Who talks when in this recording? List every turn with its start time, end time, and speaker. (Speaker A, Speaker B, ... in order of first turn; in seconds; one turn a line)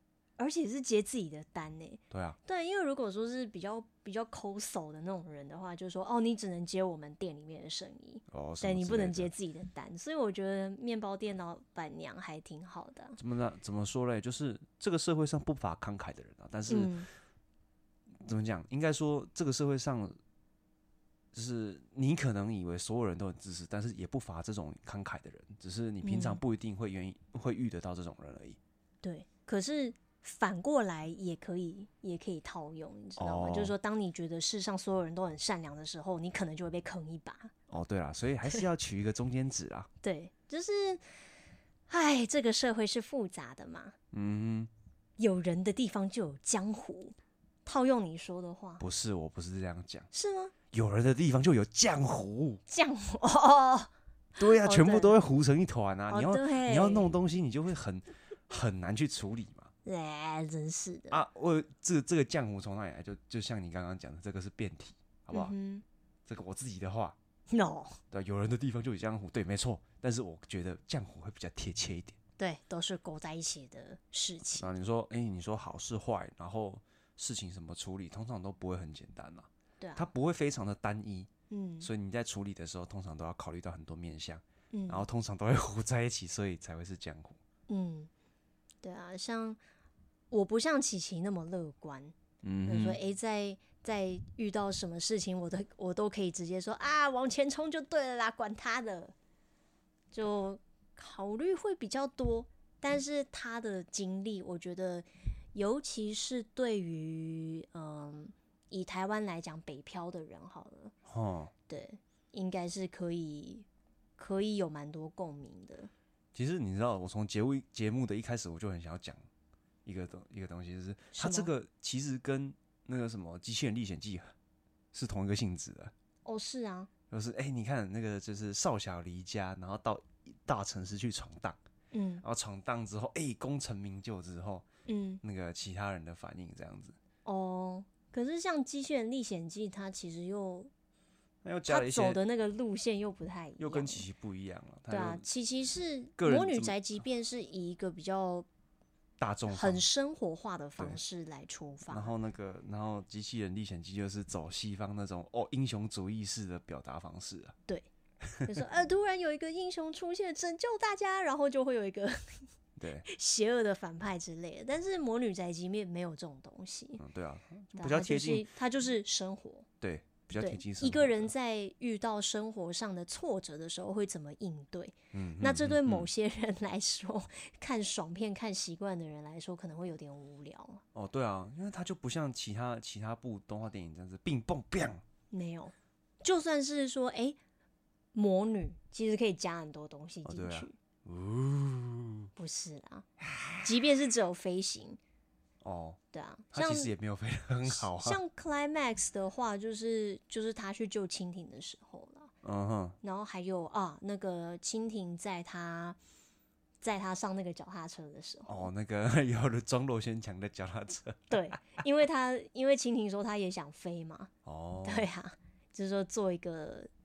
Speaker A: 0.4-13.2
Speaker B: 2.1-2.4
Speaker B: 8.3-9.3
Speaker B: 13.2-16.9
Speaker A: 16.7-17.1
Speaker B: 18.2-20.2
Speaker B: 21.3-28.6
Speaker A: 26.0-26.4
Speaker A: 29.0-37.5
Speaker B: 33.2-33.7
Speaker B: 37.7-39.9
Speaker A: 40.0-41.0
Speaker A: 41.9-43.9
Speaker B: 44.1-44.7
Speaker A: 45.2-48.8
Speaker B: 48.8-50.1
Speaker A: 50.1-50.5
Speaker B: 50.7-52.6
Speaker A: 52.7-53.9
Speaker B: 54.4-59.7
Speaker A: 54.4-55.2
Speaker A: 56.1-57.1
Speaker A: 59.8-61.2
Speaker B: 61.1-65.5
Speaker A: 65.3-65.8
Speaker B: 66.2-67.2
Speaker A: 67.5-68.0
Speaker B: 68.1-72.2
Speaker A: 72.4-74.7
Speaker B: 74.6-81.3
Speaker A: 79.8-80.1
Speaker A: 81.5-81.9
Speaker B: 81.8-87.4
Speaker A: 84.7-85.0
Speaker A: 87.7-88.1
Speaker A: 88.8-89.6
Speaker A: 90.3-92.1
Speaker B: 92.4-93.0
Speaker A: 92.7-99.1
Speaker A: 100.1-110.9
Speaker B: 111.0-111.5
Speaker A: 111.7-113.7
Speaker A: 114.2-115.9
Speaker B: 116.3-119.2
Speaker B: 119.8-124.3
Speaker A: 121.1-121.5
Speaker B: 124.9-125.9
Speaker A: 126.2-126.9
Speaker B: 127.1-131.6
Speaker A: 131.9-132.2
Speaker B: 132.2-134.6
Speaker A: 134.8-135.2
Speaker B: 135.2-136.9
Speaker A: 137.2-140.7
Speaker B: 141.4-142.2
Speaker A: 141.7-144.1
Speaker B: 143.6-145.2
Speaker A: 144.9-148.5
Speaker B: 146.2-146.7
Speaker B: 149.2-149.8
Speaker A: 149.5-152.1
Speaker B: 151.9-157.6
Speaker B: 158.2-158.6
Speaker A: 158.4-162.5
Speaker B: 162.8-163.1
Speaker A: 163.0-167.0
Speaker B: 167.0-168.5
Speaker A: 167.7-169.7
Speaker B: 169.8-171.3
Speaker A: 170.4-180.8
Speaker B: 175.1-176.1
Speaker B: 180.9-185.0
Speaker A: 185.3-187.4
Speaker A: 188.1-190.7
Speaker B: 190.2-192.3
Speaker A: 192.3-193.1
Speaker B: 193.2-193.7
Speaker A: 193.6-195.0
Speaker B: 195.6-196.0
Speaker A: 196.1-196.9
Speaker B: 196.5-198.2
Speaker A: 197.7-202.3
Speaker B: 202.4-203.0
Speaker A: 203.0-206.0
Speaker A: 206.8-208.7
Speaker B: 208.5-211.4
Speaker A: 211.3-214.3
Speaker B: 214.4-215.1
Speaker A: 214.8-216.9